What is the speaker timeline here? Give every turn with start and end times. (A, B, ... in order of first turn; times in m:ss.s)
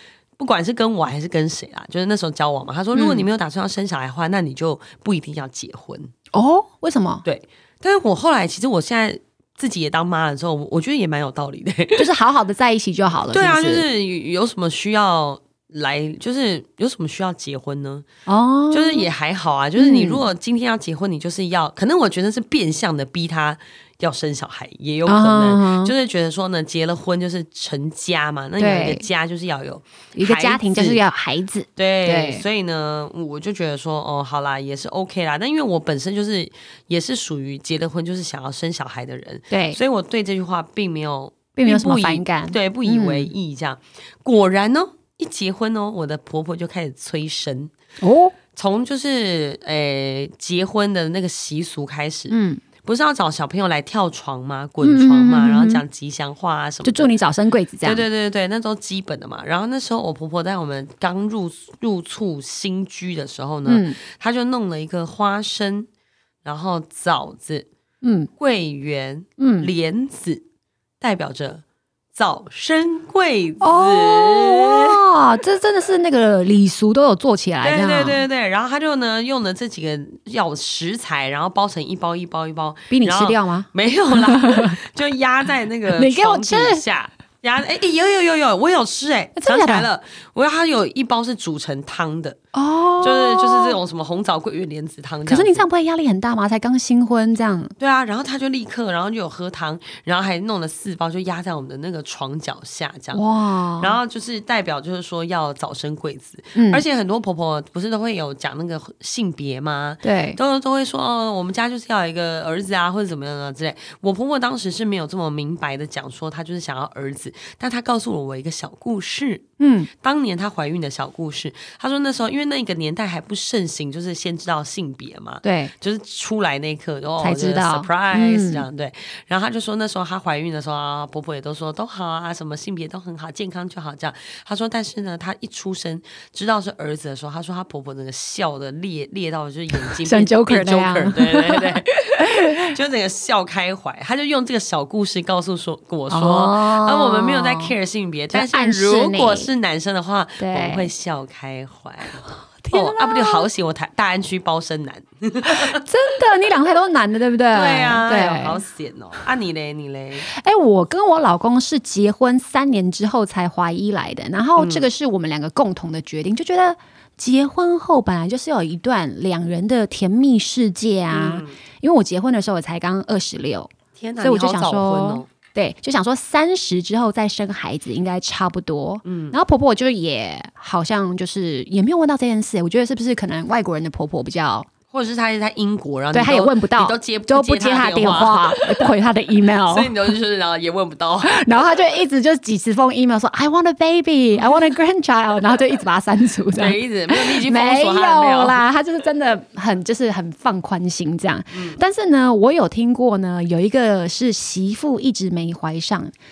0:00.4-0:06.1 A
0:02.9-0:03.2 B
0:06.3-0:07.2 B
0:07.2-0:12.1 A
0:12.0-0:13.8 B
0:13.3-0:18.0 A
0:18.3-0:19.1 B
0:18.7-0:31.0 A
0:19.8-0:20.2 B
0:25.0-0:25.9 B
0:28.6-0:29.0 B
0:30.2-0:32.4 B
0:31.8-0:47.7 A
0:39.5-0:39.8 B
0:41.5-0:43.3 B
0:48.0-0:48.3 B
0:48.5-0:57.1 A
0:52.3-0:52.6 B
0:54.8-0:55.8 B
0:56.8-0:58.0 B
0:57.8-1:05.9 A
1:03.6-1:04.0 B
1:06.4-1:07.7 A
1:08.0-1:08.3 B
1:08.4-1:10.4 A
1:09.4-1:09.7 B
1:11.0-1:11.6 A
1:12.1-1:15.0 A
1:13.6-1:18.2 B
1:17.6-1:32.4 A
1:22.9-1:24.8 B
1:25.9-1:26.8 B
1:29.4-1:29.9 B
1:32.5-1:33.8 B
1:33.0-1:35.6 A
1:35.3-1:37.7 B
1:37.8-1:43.2 A
1:43.1-1:44.0 B
1:43.8-2:35.8 A
1:46.5-1:46.8 B
1:50.0-1:50.4 B
1:59.6-1:59.9 B
2:05.4-2:05.7 B
2:07.2-2:08.6 B
2:19.8-2:22.7 B
2:26.1-2:27.7 B
2:28.3-2:29.5 B
2:30.4-2:30.9 B
2:32.6-2:33.5 B
2:35.4-2:38.6 B
2:37.5-2:40.3 A
2:40.3-3:04.7 B
2:44.6-2:44.9 A
2:51.1-2:51.6 A
2:53.9-2:55.3 A
2:59.0-2:59.4 A
3:04.9-3:08.9 A
3:06.1-3:10.1 B
3:09.7-3:11.4 A
3:11.2-3:26.1 B
3:16.5-3:18.6 A
3:21.5-3:21.8 A